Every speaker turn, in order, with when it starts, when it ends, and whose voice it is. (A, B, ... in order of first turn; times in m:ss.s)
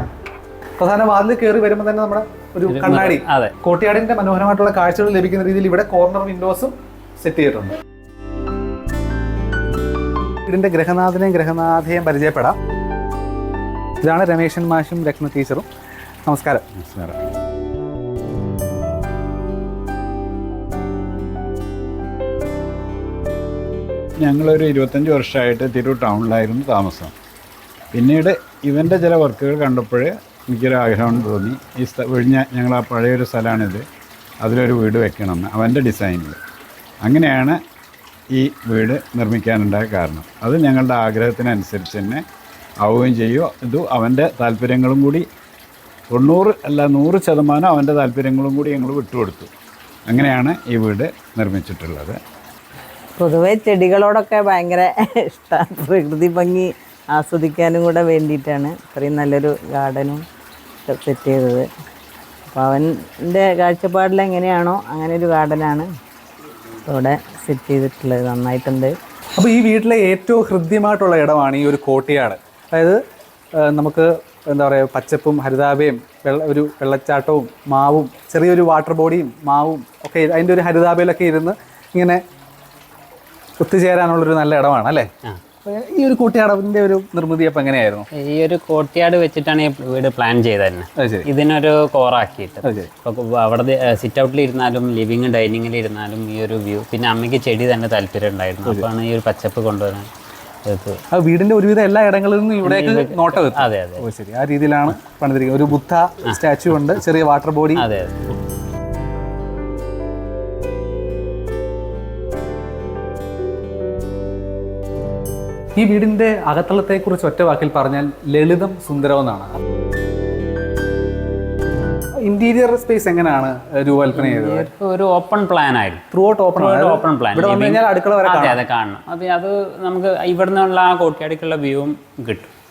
0:00.8-0:07.7 A
0:02.7-0:03.5 B
0:10.5-0:12.6 A
0:14.0-0:15.7 A
0:16.3-0:16.7 A
0:16.8-0:17.2 C
0:24.2-0:27.1 C
0:27.9-0:33.9 C
0:34.4-0:36.4 C
0:37.0-0:37.6 C
0:38.3-0:42.2 C
0:42.8-0:45.3 C
0:46.1-0:49.5 C
0:50.1-0:52.2 C
0:53.2-1:00.2 D
1:00.9-1:01.7 D
1:02.5-1:05.9 D
1:06.9-1:08.9 D
1:09.4-1:13.0 A
1:13.6-1:22.2 A
1:23.6-1:25.1 A
1:25.6-1:28.1 A
1:28.2-1:40.1 B
1:31.0-1:31.3 A
1:32.6-1:32.9 A
1:40.7-1:41.0 B
1:41.1-1:47.8 A
1:42.6-1:44.0 B
1:47.8-1:48.4 B
1:55.8-1:59.5 A
2:02.2-2:04.7 A
2:04.1-2:06.0 B
2:06.1-2:08.6 A
2:06.6-2:12.5 B